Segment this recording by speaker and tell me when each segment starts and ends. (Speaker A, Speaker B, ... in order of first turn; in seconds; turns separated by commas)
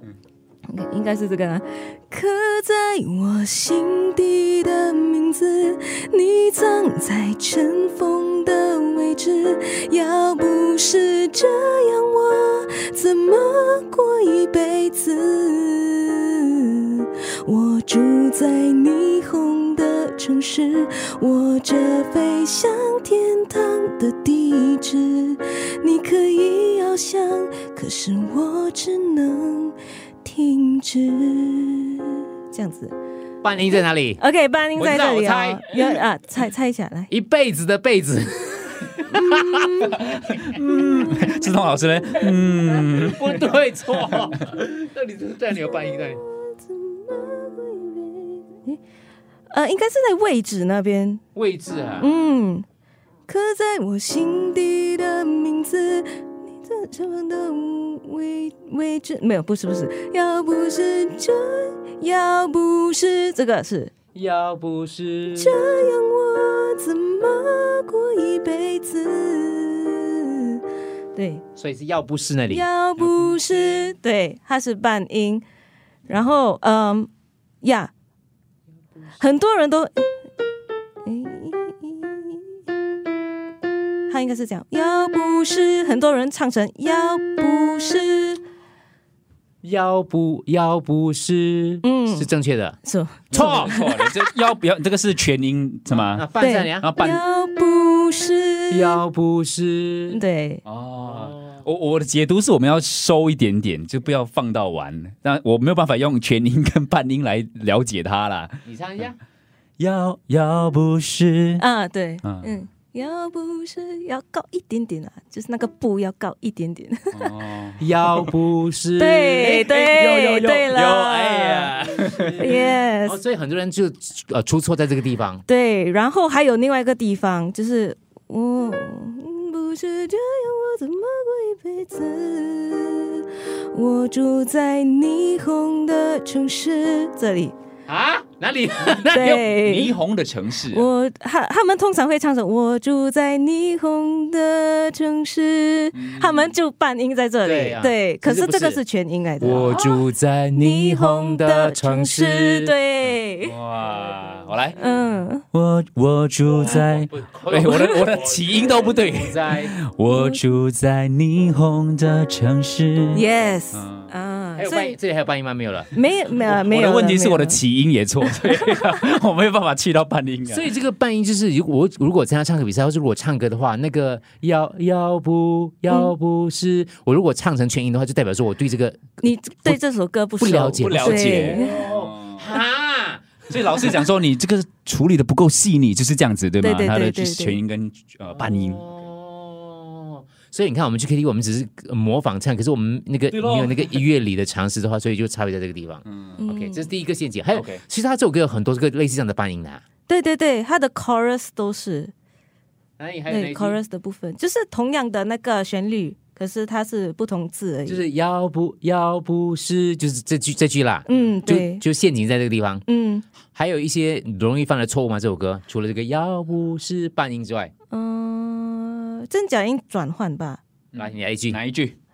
Speaker A: 0.7-32.9, Speaker B: 33.4-34.2, Speaker A: 34.2-37.1, Speaker B: 34.8-35.9, Speaker B: 37.1-40.0, Speaker A: 39.1-40.0, Speaker C: 40.1-43.5, Speaker B: 42.8-46.2, Speaker A: 46.3-48.8, Speaker A: 49.5-51.2, Speaker B: 51.3-52.1, Speaker A: 52.0-52.6, Speaker A: 53.3-63.9, Speaker B: 64.1-65.8, Speaker A: 65.3-70.6, Speaker A: 71.1-71.4, Speaker B: 71.6-72.7, Speaker A: 72.5-75.4, Speaker A: 76.1-77.1, Speaker A: 77.6-77.9, Speaker A: 79.2-80.2, Speaker A: 81.0-82.6, Speaker A: 84.1-88.4, Speaker B: 89.6-92.8, Speaker A: 91.8-92.3, Speaker A: 92.8-94.3, Speaker B: 93.3-93.7, Speaker C: 93.3-96.3, Speaker B: 95.9-97.2, Speaker A: 96.4-99.0, Speaker C: 96.8-97.2, Speaker B: 98.7-100.2, Speaker A: 100.1-100.6, Speaker C: 100.7-108.6, Speaker B: 101.1-101.6, Speaker B: 108.7-109.2, Speaker C: 109.8-111.6, Speaker A: 111.6-117.3, Speaker C: 112.2-112.5, Speaker C: 117.1-118.3, Speaker B: 117.8-119.9, Speaker A: 119.0-121.7, Speaker C: 119.8-122.7, Speaker B: 121.8-125.4, Speaker A: 122.4-123.2, Speaker A: 125.5-137.6, Speaker B: 137.9-139.4, Speaker A: 139.1-139.9, Speaker C: 139.2-140.9, Speaker A: 140.7-150.1, Speaker C: 145.9-146.5, Speaker B: 147.4-148.8, Speaker B: 149.4-152.7, Speaker A: 150.6-153.5, Speaker C: 153.4-154.8, Speaker A: 154.8-155.4, Speaker C: 155.5-164.1, Speaker B: 156.4-159.7, Speaker A: 160.1-160.4, Speaker A: 163.1-165.0, Speaker B: 164.6-165.9, Speaker A: 165.9-167.6, Speaker C: 166.4-170.7, Speaker A: 168.4-168.7, Speaker B: 170.5-179.8, Speaker A: 179.2-181.8, Speaker B: 180.4-183.8, Speaker C: 180.8-182.6, Speaker C: 183.5-188.8, Speaker A: 186.6-187.6, Speaker B: 188.4-199.8, Speaker C: 193.3-194.0, Speaker C: 196.1-196.4, Speaker A: 196.4-196.9, Speaker C: 197.5-197.8, Speaker A: 200.1-202.1, Speaker B: 203.0-203.8, Speaker A: 203.3-208.0, Speaker B: 207.9-212.8, Speaker A: 211.1-211.8, Speaker A: 212.9-213.2, Speaker B: 213.5-217.7, Speaker A: 217.9-220.6, Speaker C: 220.9-222.0, Speaker B: 221.0-221.6